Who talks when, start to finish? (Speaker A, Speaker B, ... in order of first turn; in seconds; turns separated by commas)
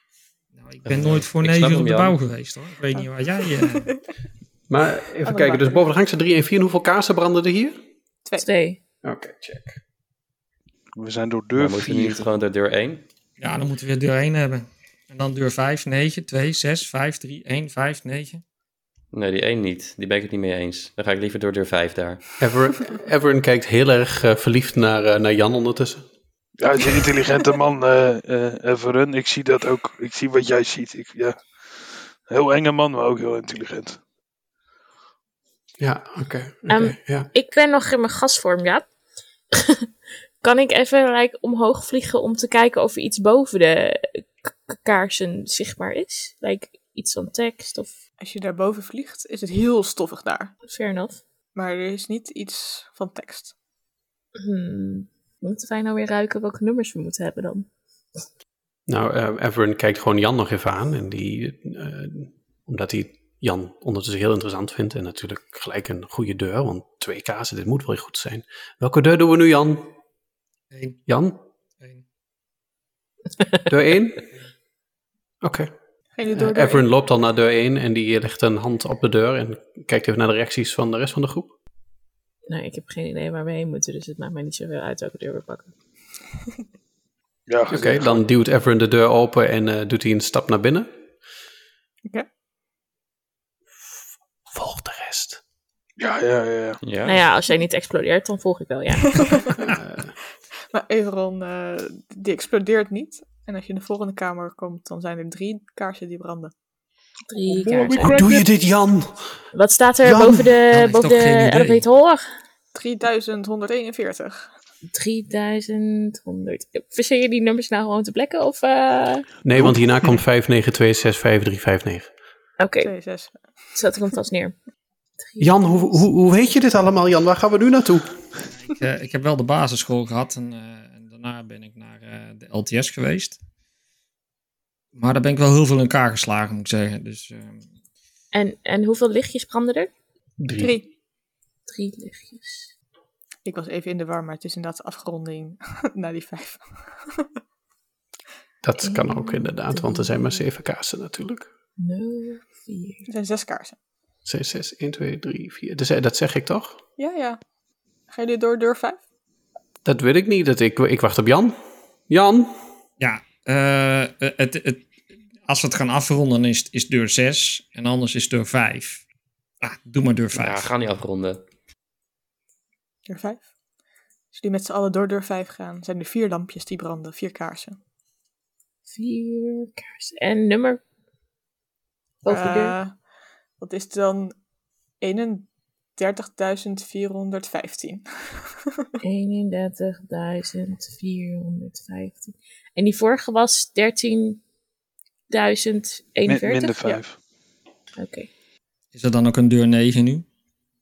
Speaker A: 0.5-3.9, Speaker B: 0.8-2.2, Speaker C: 4.7-7.8, Speaker D: 5.2-5.8, Speaker E: 8.4-8.8, Speaker C: 9.0-9.8, Speaker F: 10.9-12.2, Speaker B: 11.5-13.0, Speaker A: 13.4-18.4, Speaker B: 19.1-22.2, Speaker C: 22.4-26.1, Speaker F: 26.6-34.0, Speaker C: 35.8-37.3, Speaker E: 36.7-38.9, Speaker E: 39.5-39.9, Speaker E: 40.4-47.9, Speaker D: 48.2-50.5, Speaker E: 50.6-51.2, Speaker D: 51.5-53.5, Speaker E: 54.3-57.7, Speaker C: 58.9-69.9, Speaker A: 70.7-71.0, Speaker C: 71.1-71.4, Speaker C: 73.7-74.2, Speaker C: 75.4-75.7, Speaker D: 76.2-76.8, Speaker C: 76.3-81.5, Speaker E: 82.5-85.7, Speaker F: 87.5-88.2, Speaker C: 87.7-90.9, Speaker C: 94.5-95.4, Speaker F: 96.0-96.8, Speaker B: 96.8-97.2, Speaker E: 97.0-99.2, Speaker D: 99.2-99.5, Speaker C: 99.6-100.1, Speaker D: 100.7-106.5, Speaker E: 107.3-108.2, Speaker F: 107.5-108.4, Speaker C: 108.0-109.2, Speaker E: 109.5-112.2, Speaker C: 110.0-110.5, Speaker A: 110.7-111.8, Speaker D: 112.7-114.5, Speaker E: 114.9-119.3, Speaker C: 119.4-122.1, Speaker E: 122.6-122.9, Speaker D: 122.8-123.4, Speaker E: 123.7-124.5, Speaker E: 125.2-126.0, Speaker C: 125.4-128.2, Speaker A: 128.6-133.4, Speaker A: 134.9-137.6, Speaker E: 138.3-139.9, Speaker C: 140.4-140.8, Speaker D: 140.6-140.9, Speaker E: 141.7-142.7, Speaker D: 143.4-147.2, Speaker C: 148.6-151.5, Speaker E: 148.8-150.4, Speaker E: 151.8-153.1, Speaker D: 153.1-153.8, Speaker C: 154.2-156.8, Speaker D: 157.0-157.4, Speaker D: 158.1-159.0, Speaker C: 159.8-161.5, Speaker C: 162.1-162.5, Speaker A: 163.0-164.9, Speaker A: 165.4-169.0, Speaker A: 169.6-170.7, Speaker B: 170.3-171.4, Speaker D: 173.1-173.5, Speaker D: 174.3-177.8, Speaker E: 178.9-180.8, Speaker E: 182.2-182.8, Speaker D: 182.3-182.9, Speaker D: 183.6-184.3, Speaker D: 185.0-188.5, Speaker E: 189.0-194.4, Speaker E: 195.3-196.9, Speaker F: 196.2-197.2, Speaker E: 197.9-198.3, Speaker A: 198.9-200.2